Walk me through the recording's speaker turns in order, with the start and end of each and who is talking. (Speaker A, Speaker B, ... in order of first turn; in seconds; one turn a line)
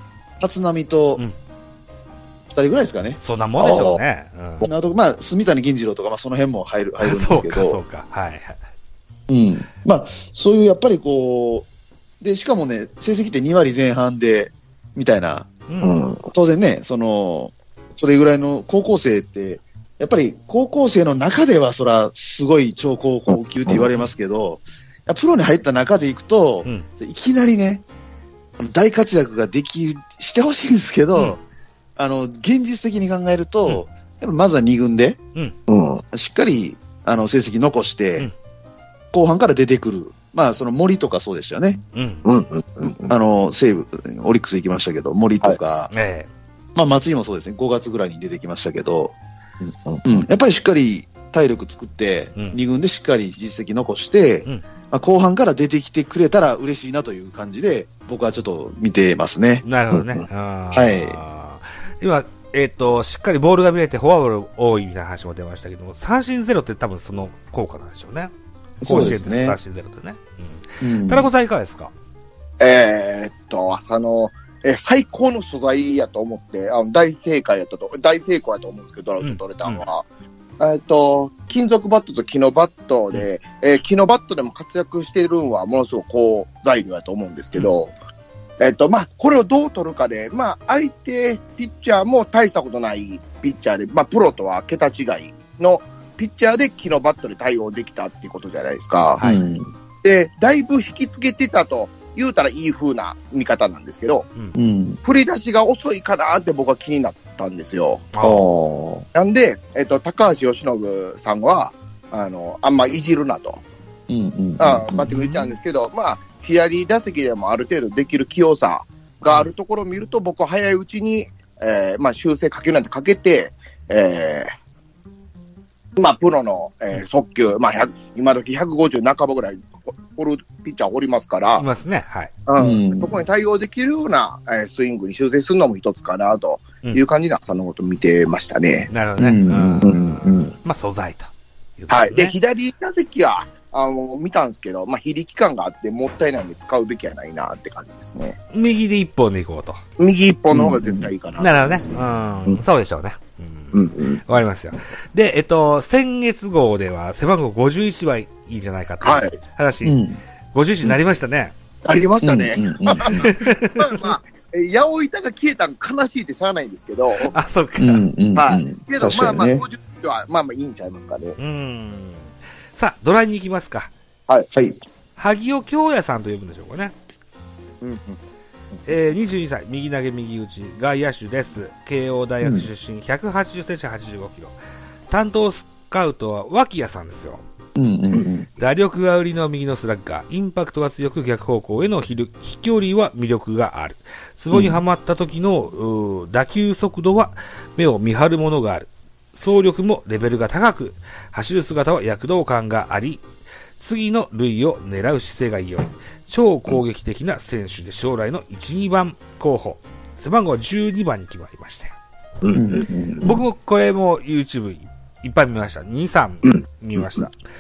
Speaker A: 0.4-1.2
Speaker A: 2.5-4.0
Speaker B: 3.2-4.7
Speaker A: 4.6-7.8
Speaker B: 7.0-8.6
Speaker A: 9.3-11.7
Speaker A: 12.2-15.5
Speaker B: 15.7-16.0
Speaker C: 15.8-16.2
Speaker A: 16.3-27.8
Speaker A: 28.6-31.4
Speaker A: 32.0-35.2
Speaker C: 35.7-36.0
Speaker A: 36.1-38.3
Speaker A: 39.1-41.8
Speaker B: 41.9-42.2
Speaker C: 42.2-43.1
Speaker A: 43.1-45.9
Speaker B: 45.9-46.3
Speaker A: 46.8-49.1
Speaker A: 50.0-59.6
Speaker B: 59.6-71.9
Speaker A: 60.7-61.2
Speaker A: 68.8-69.6
Speaker A: 70.8-71.3
Speaker C: 72.6-80.0
Speaker B: 79.2-79.8
Speaker C: 80.6-87.9
Speaker C: 88.6-99.2
Speaker A: 99.2-99.7
Speaker C: 100.0-104.3
Speaker A: 104.5-105.0
Speaker C: 105.0-108.1
Speaker B: 108.1-108.4
Speaker A: 108.2-109.1
Speaker C: 109.2-113.6
Speaker A: 114.1-115.4
Speaker C: 114.6-124.5
Speaker B: 115.1-115.4
Speaker C: 126.0-131.6
Speaker B: 131.6-132.3
Speaker C: 132.5-138.9
Speaker A: 132.6-133.2
Speaker B: 138.9-142.3
Speaker A: 139.2-140.5
Speaker C: 139.8-140.2
Speaker C: 141.9-148.4
Speaker B: 148.5-149.8
Speaker C: 150.0-152.6
Speaker A: 150.5-151.1
Speaker B: 151.4-160.0
Speaker C: 153.7-154.2
Speaker C: 159.0-159.4
Speaker A: 159.8-160.2
Speaker B: 160.5-161.6
Speaker C: 161.8-167.3
Speaker A: 162.2-163.3
Speaker B: 163.1-164.1
Speaker B: 167.2-168.1
Speaker A: 167.8-169.6
Speaker C: 168.3-171.4
Speaker B: 171.4-173.9
Speaker A: 174.5-174.8
Speaker B: 175.2-176.9
Speaker C: 177.8-178.2
Speaker B: 178.9-184.5
Speaker A: 182.4-182.7
Speaker B: 185.1-187.4
Speaker A: 187.8-188.5
Speaker B: 188.6-203.2
Speaker A: 194.5-194.8
Speaker B: 203.8-211.9
Speaker C: 212.4-213.2
Speaker A: 212.5-213.4
Speaker B: 213.2-217.4